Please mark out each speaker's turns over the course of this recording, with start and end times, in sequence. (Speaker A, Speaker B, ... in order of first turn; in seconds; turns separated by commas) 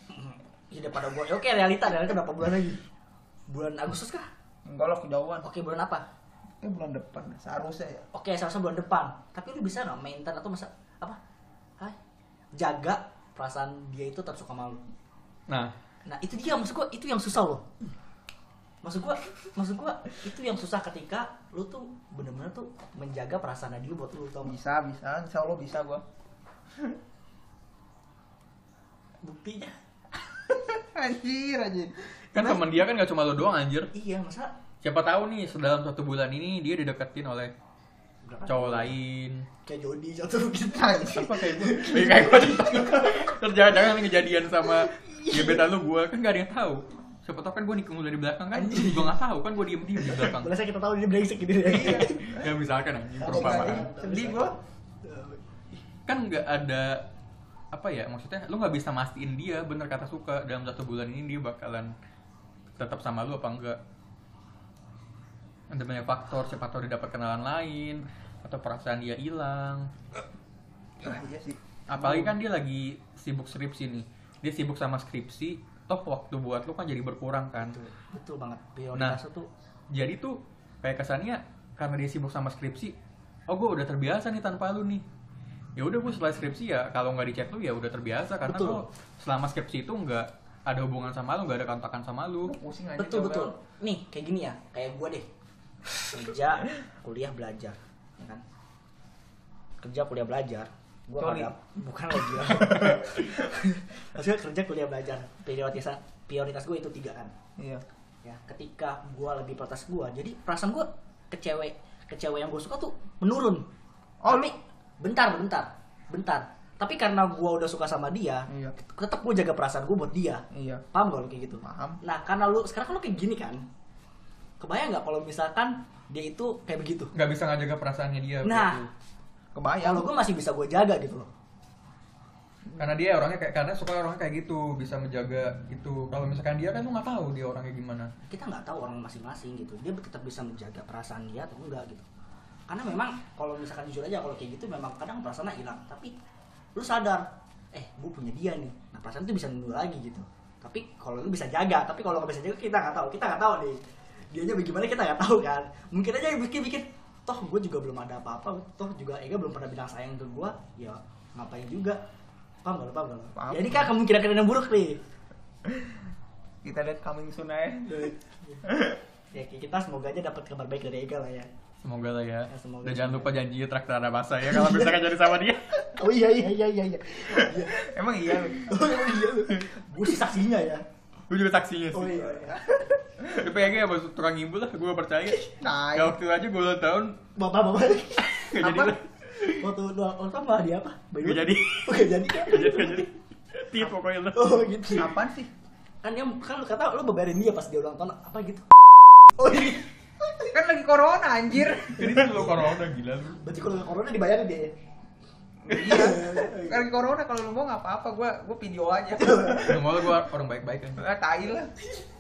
Speaker A: 0.1-2.8, Speaker A: 3.5-4.3, Speaker B: 4.7-5.5, Speaker A: 5.4-6.0, Speaker B: 6.6-8.0, Speaker A: 8.1-11.2, Speaker A: 12.5-14.8, Speaker C: 15.5-15.7, Speaker A: 16.0-17.7, Speaker A: 18.8-24.6, Speaker B: 24.4-26.0, Speaker A: 29.2-29.8, Speaker B: 30.5-32.6, Speaker C: 32.3-33.9, Speaker A: 33.9-34.5, Speaker C: 34.8-37.5, Speaker A: 38.2-38.9, Speaker C: 38.4-39.5, Speaker A: 39.6-43.3, Speaker B: 40.7-42.2, Speaker C: 41.2-50.5, Speaker A: 44.9-45.6, Speaker A: 48.5-49.1, Speaker A: 49.9-52.4, Speaker B: 51.7-52.3, Speaker C: 51.8-53.9, Speaker A: 53.2-55.8, Speaker B: 53.2-54.5, Speaker C: 56.1-57.1, Speaker C: 57.7-61.9, Speaker C: 62.8-63.8, Speaker C: 65.7-69.9, Speaker B: 71.0-72.3, Speaker C: 71.9-77.8, Speaker A: 77.6-79.5, Speaker C: 79.9-82.9, Speaker C: 83.5-85.0, Speaker C: 85.8-92.5, Speaker A: 88.4-88.8, Speaker B: 92.5-93.5, Speaker A: 93.0-95.3, Speaker A: 96.0-98.4, Speaker A: 99.8-107.3, Speaker B: 101.2-101.5, Speaker B: 102.4-103.2, Speaker B: 107.6-107.8, Speaker A: 108.2-113.7, Speaker B: 114.2-114.5, Speaker A: 114.3-123.6, Speaker B: 118.5-118.7, Speaker B: 120.5-120.8, Speaker B: 121.6-122.0, Speaker A: 124.6-127.1, Speaker C: 127.1-128.9, Speaker A: 128.4-128.9, Speaker B: 129.5-130.1, Speaker A: 129.8-131.3, Speaker C: 132.8-138.1, Speaker A: 138.2-142.1, Speaker A: 142.7-146.1, Speaker A: 146.7-162.0, Speaker A: 162.6-165.0, Speaker B: 163.3-163.9, Speaker B: 165.7-166.0, Speaker B: 166.6-168.1, Speaker A: 167.8-168.6, Speaker B: 168.6-169.0, Speaker A: 169.3-171.5, Speaker C: 171.8-175.9, Speaker A: 172.5-173.3, Speaker A: 174.5-174.9, Speaker A: 175.9-177.9, Speaker B: 177.3-178.8, Speaker A: 178.4-180.8, Speaker C: 181.3-182.2, Speaker A: 181.9-182.7, Speaker B: 182.3-183.5, Speaker C: 183.3-187.2, Speaker B: 185.5-186.2, Speaker A: 187.3-188.8, Speaker C: 188.3-189.7, Speaker B: 188.6-188.9, Speaker A: 189.3-193.1, Speaker C: 191.2-194.6, Speaker A: 194.3-195.1, Speaker B: 194.9-195.5, Speaker A: 196.0-198.7, Speaker A: 199.3-200.5, Speaker B: 200.5-202.4, Speaker C: 201.8-203.4, Speaker A: 202.0-202.6, Speaker A: 203.4-204.7, Speaker B: 205.6-210.1, Speaker A: 205.7-206.8, Speaker A: 209.4-209.6, Speaker C: 209.5-211.0, Speaker B: 211.0-211.7